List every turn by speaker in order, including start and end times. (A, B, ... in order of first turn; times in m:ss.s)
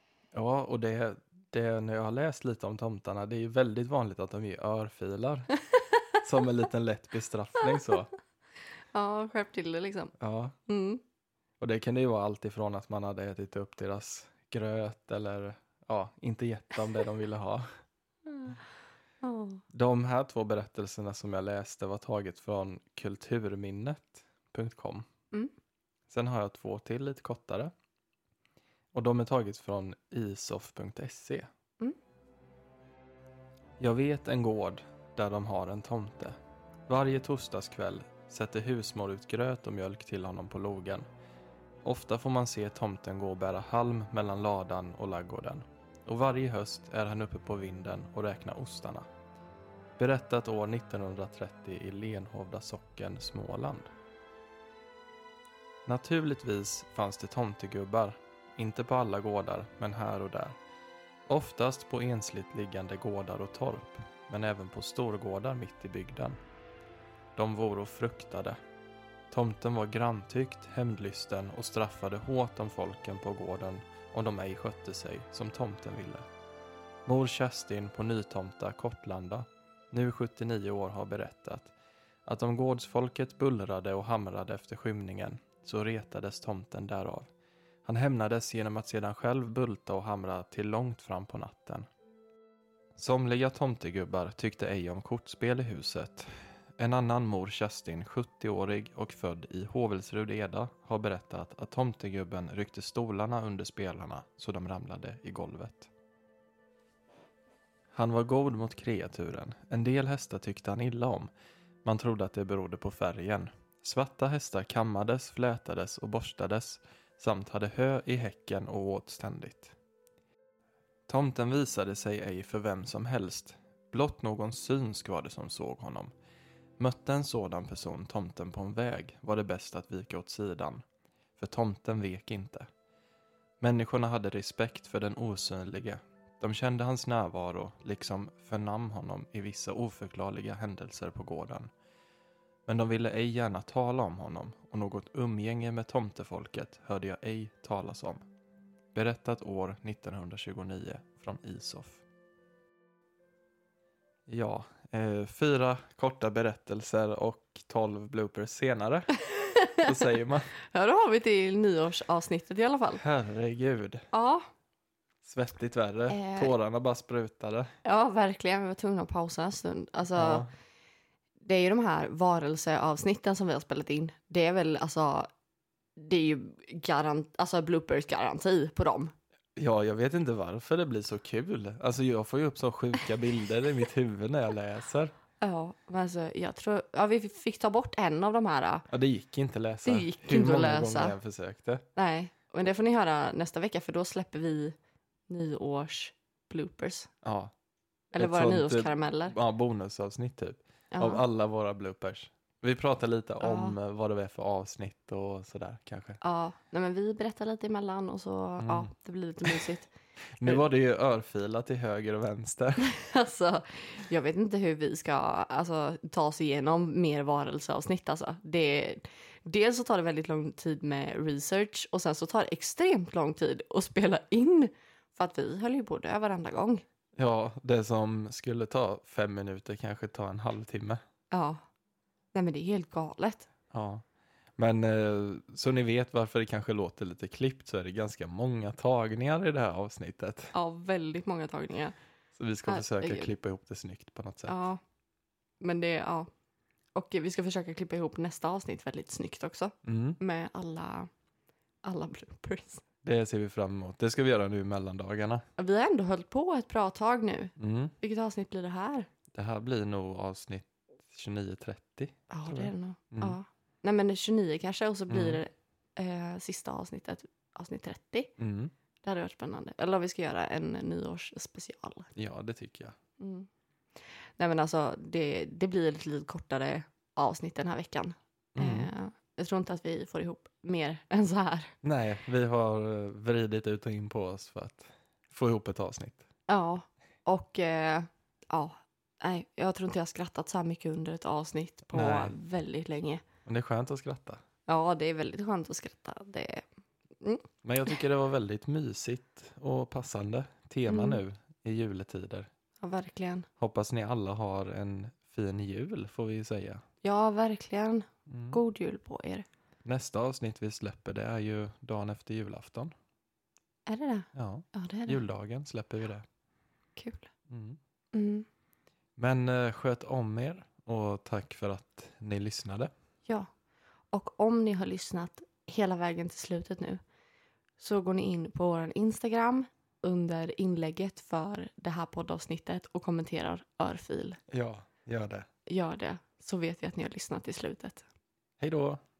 0:00.3-0:05.5 A
0:06.2-0:08.1 A
0:08.9-0:10.1 B
0:10.2-0:10.5 A
0:10.7-0:11.0 B
0:11.6-0:17.7 A
0:19.2-0:19.6 B
0:19.7-0:25.0 A
0:26.1-0:27.7 A
0:28.9-0:31.5 A
0:33.8-0:36.4 A
0:36.9-0:41.0 A
0:41.8-0:49.1 A
0:50.0-0:53.9 A
0:55.8-1:00.6 A
1:01.3-1:06.4 A
1:07.4-1:08.6 A
1:09.3-1:16.2 A
1:17.0-1:21.7 A
1:22.2-1:27.3 A
1:27.8-1:31.8 A
1:33.0-1:45.9 A
1:47.9-1:51.3 A
1:51.8-1:59.7 A
2:01.1-2:06.1 A
2:06.8-2:10.8 A
2:11.4-2:12.7 A
2:13.6-2:21.7 A
2:22.6-2:28.2 A
2:28.9-2:32.0 A
2:34.3-2:39.2 A
2:39.3-2:39.8 B
2:39.7-2:40.5 A
2:40.7-2:43.0 B
2:43.0-2:44.0 A
2:44.1-2:44.4 B
2:45.2-2:47.7 A
2:46.1-2:46.5 B
2:47.8-2:50.4 B
2:50.1-2:50.5 A
2:51.4-2:55.3 B
2:56.0-2:59.1 B
2:59.6-3:05.1 A
3:05.4-3:08.9 B
3:08.9-3:11.8 A
3:09.8-3:11.2 B
3:12.0-3:14.8 B
3:15.3-3:17.1 B
3:17.2-3:17.5 A
3:18.1-3:19.3 B
3:18.2-3:26.2 A
3:20.9-3:21.2 B
3:23.4-3:23.8 B
3:26.2-3:29.9 B
3:28.6-3:28.9 A
3:30.4-3:32.9 A
3:32.8-3:46.8 B
3:47.2-3:51.0 A
3:51.3-3:51.6 B
3:52.3-3:53.5 B
3:53.7-3:54.0 A
3:54.6-4:00.5 A
4:00.5-4:01.9 B
4:02.3-4:04.6 A
4:02.6-4:03.3 B
4:04.5-4:04.8 B
4:05.6-4:06.3 B
4:06.9-4:11.1 B
4:09.8-4:10.2 A
4:11.8-4:12.8 B
4:13.0-4:15.4 A
4:15.6-4:19.1 B
4:17.6-4:17.9 A
4:19.3-4:23.4 A
4:22.3-4:28.3 B
4:25.1-4:25.4 A
4:28.4-4:28.7 A
4:29.0-4:32.1 B
4:32.1-4:33.0 A
4:33.2-4:33.5 B
4:34.4-4:41.7 B
4:38.6-4:38.9 A
4:41.8-4:46.2 A
4:46.5-4:53.2 B
4:51.9-4:52.3 A
4:53.4-4:54.4 A
4:54.7-4:56.6 B
4:57.6-5:02.5 A
5:00.9-5:01.2 B
5:02.8-5:03.5 B
5:03.6-5:06.8 A
5:07.0-5:09.4 B
5:08.3-5:08.6 A
5:09.8-5:12.9 A
5:13.9-5:15.2 B
5:14.3-5:16.2 A
5:17.0-5:17.3 B
5:17.5-5:17.8 A
5:18.1-5:18.4 B
5:19.2-5:22.9 A
5:24.1-5:27.0 B
5:27.8-5:34.4 B
5:34.5-5:35.5 A
5:35.7-5:38.1 B
5:38.6-5:39.0 A